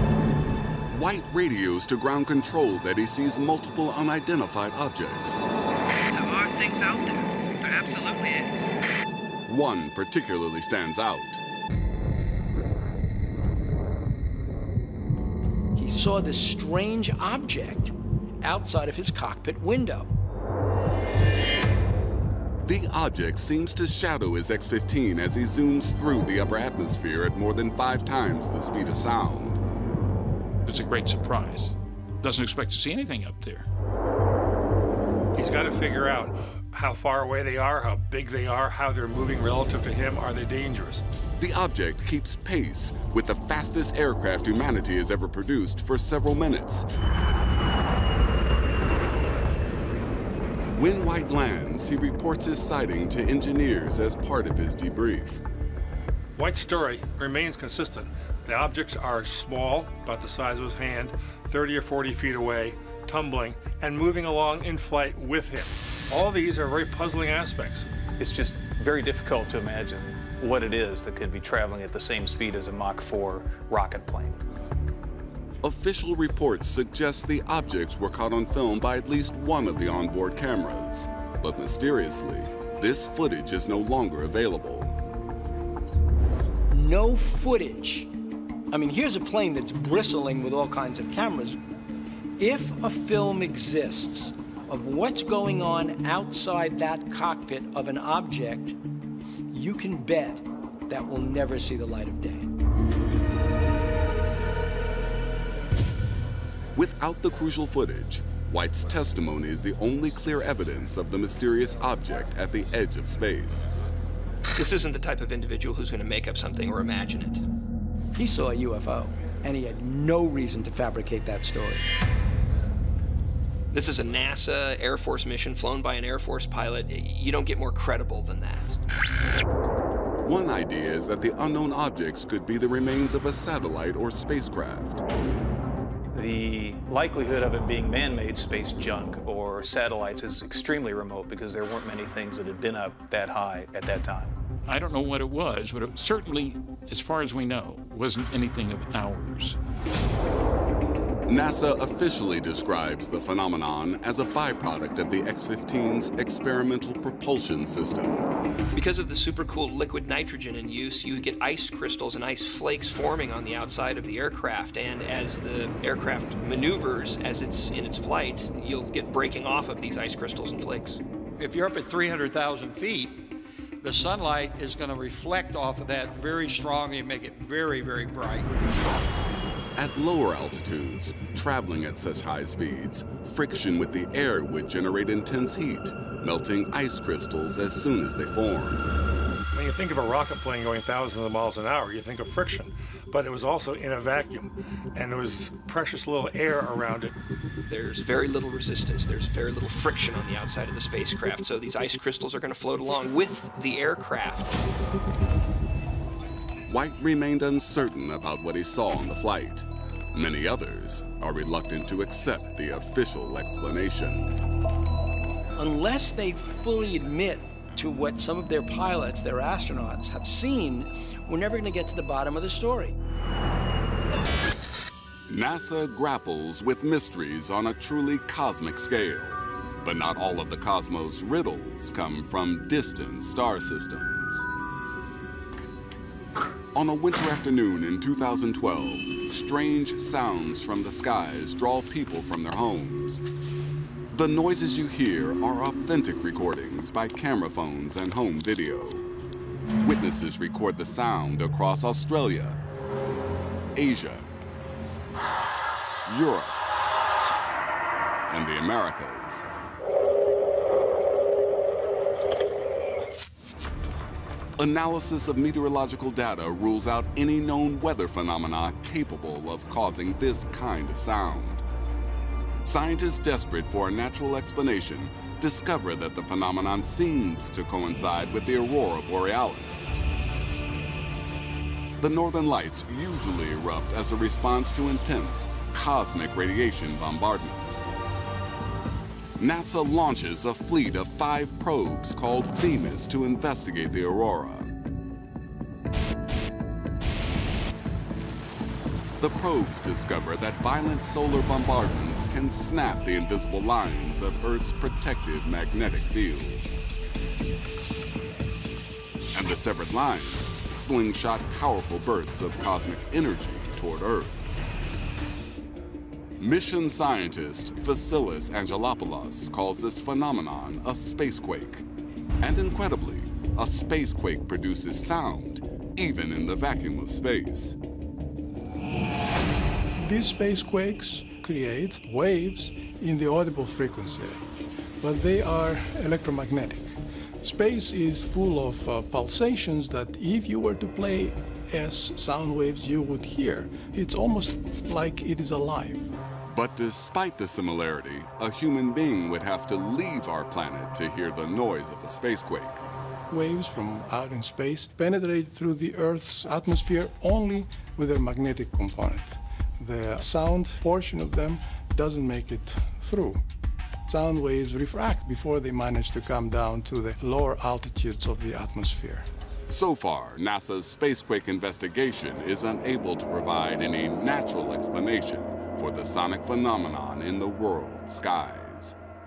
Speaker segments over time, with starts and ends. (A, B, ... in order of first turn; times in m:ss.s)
0:00.9-0:05.5 A
0:06.1-0:08.5 B
0:09.5-0:11.4 A
0:15.8-0:20.1 B
0:22.6-0:29.6 A
0:30.6-0:33.7 C
0:35.4-0:41.0 D
0:41.4-0:46.9 A
0:50.8-0:55.4 A
0:56.4-1:07.9 D
1:08.2-1:14.4 E
1:15.6-1:25.0 A
1:26.7-1:28.1 B
1:28.7-1:31.6 B
1:32.4-1:38.8 B
1:39.5-1:42.5 B
1:46.8-1:53.7 A
1:54.6-1:57.4 F
1:58.2-2:01.9 B
2:03.7-2:08.8 F
2:10.2-2:15.0 A
2:16.1-2:24.3 E
2:24.7-2:29.6 C
2:31.3-2:38.3 A
2:38.7-2:51.0 F
2:51.4-2:53.3 G
2:53.8-2:58.5 G
2:59.8-3:08.9 A
3:09.5-3:17.2 D
3:17.7-3:24.5 F
3:26.7-3:34.2 A
3:35.6-3:43.0 B
3:45.3-3:54.5 A
3:56.7-4:03.2 A
4:04.1-4:09.1 A
4:09.8-4:12.6 A
4:13.8-4:14.3 A
4:16.1-4:16.6 A
4:18.3-4:19.4 A
4:24.6-4:31.6 A
4:32.6-4:39.9 A
4:42.0-4:47.8 A
4:49.4-4:54.7 A
4:59.2-5:06.6 A
5:09.3-5:14.4 A
5:16.4-5:21.9 A
5:22.4-5:27.8 A
5:30.0-5:46.1 H
5:46.5-5:52.8 A
5:53.3-6:03.4 H
6:04.1-6:09.3 H
6:09.7-6:19.0 A